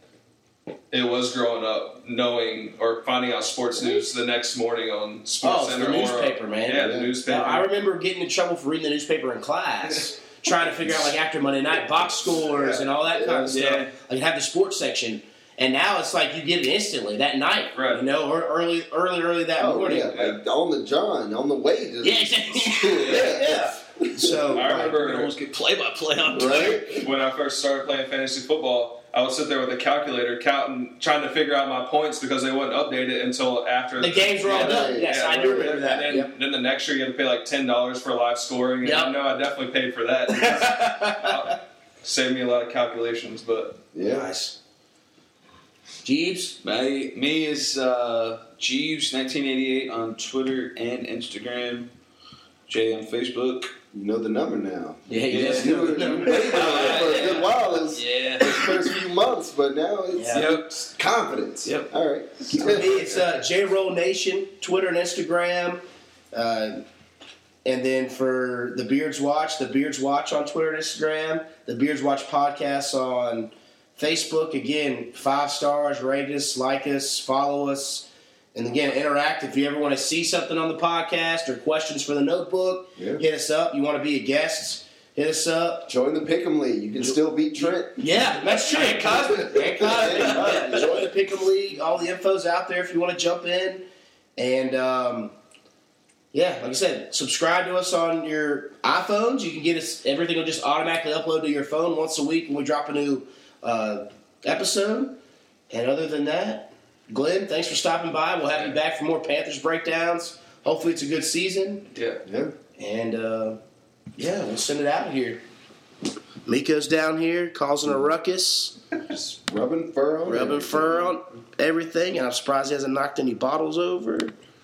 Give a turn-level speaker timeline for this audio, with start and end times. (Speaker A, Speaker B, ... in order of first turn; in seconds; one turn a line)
Speaker A: 0.9-7.7
Speaker B: 5.4-20.1
Speaker C: 6.8-7.1
Speaker A: 12.5-12.8
Speaker C: 13.1-13.5
Speaker D: 13.4-13.9
Speaker A: 17.7-18.0
Speaker C: 19.6-24.9
Speaker A: 20.1-20.4
Speaker B: 22.0-24.9
Speaker A: 24.5-25.3
Speaker D: 24.8-27.0
Speaker C: 26.3-27.1
Speaker A: 27.0-43.8
Speaker B: 34.0-36.3
Speaker C: 34.4-35.8
Speaker B: 38.8-39.1
Speaker B: 40.3-41.5
Speaker C: 43.9-44.3
Speaker B: 44.0-44.5
Speaker B: 46.0-46.6
Speaker D: 46.6-51.9
Speaker D: 52.7-53.7
Speaker C: 53.9-62.9
Speaker B: 55.1-57.1
Speaker D: 55.3-59.0
Speaker B: 60.1-60.5
Speaker D: 60.3-60.7
Speaker D: 61.6-61.9
Speaker D: 62.4-62.8
Speaker B: 62.5-66.8
Speaker B: 67.6-85.9
Speaker C: 83.0-83.2
Speaker C: 85.9-88.0
Speaker B: 87.9-93.8
Speaker D: 88.7-90.7
Speaker C: 89.5-91.1
Speaker B: 94.4-95.3
Speaker B: 96.3-105.2
Speaker B: 105.7-111.9
Speaker A: 111.9-112.2
Speaker C: 112.2-112.5
Speaker B: 112.8-113.6
Speaker B: 114.2-115.4
Speaker B: 116.5-118.7
Speaker C: 119.1-121.1
Speaker B: 120.2-124.3